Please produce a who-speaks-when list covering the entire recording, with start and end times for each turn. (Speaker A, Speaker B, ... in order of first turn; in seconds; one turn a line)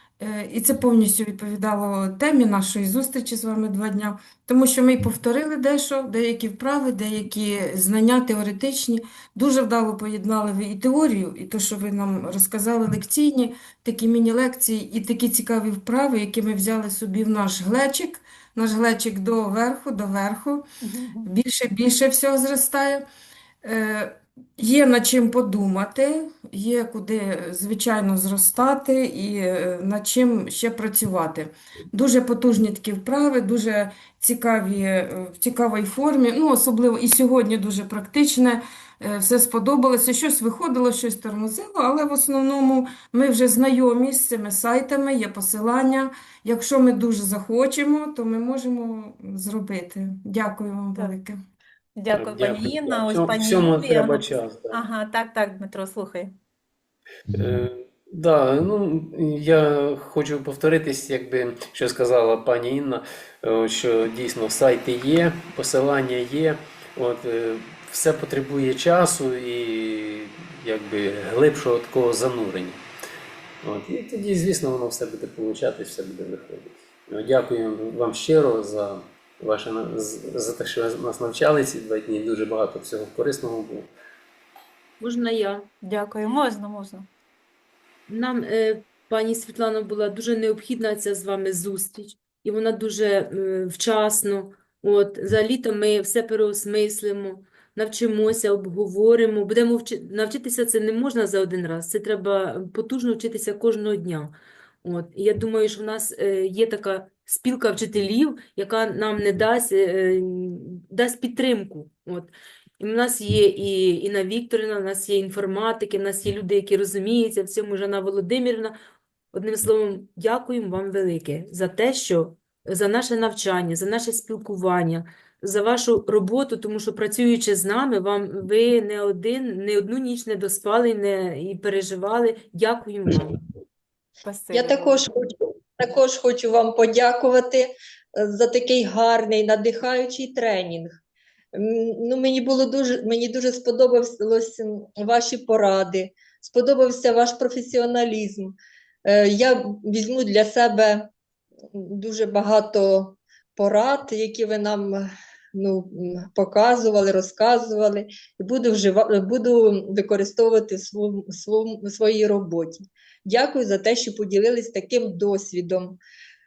Speaker A: 0.2-20.6
Speaker B: 20.8-21.3
Speaker A: 21.2-23.0
Speaker A: 23.6-51.4
Speaker B: 52.0-56.3
Speaker C: 52.1-54.8
Speaker C: 57.4-72.8
Speaker C: 73.6-83.9
Speaker D: 85.0-85.7
Speaker B: 85.8-87.0
Speaker D: 88.1-118.7
Speaker D: 119.3-133.4
Speaker B: 134.2-134.9
Speaker E: 134.5-140.9
Speaker E: 141.6-151.1
Speaker E: 151.7-166.0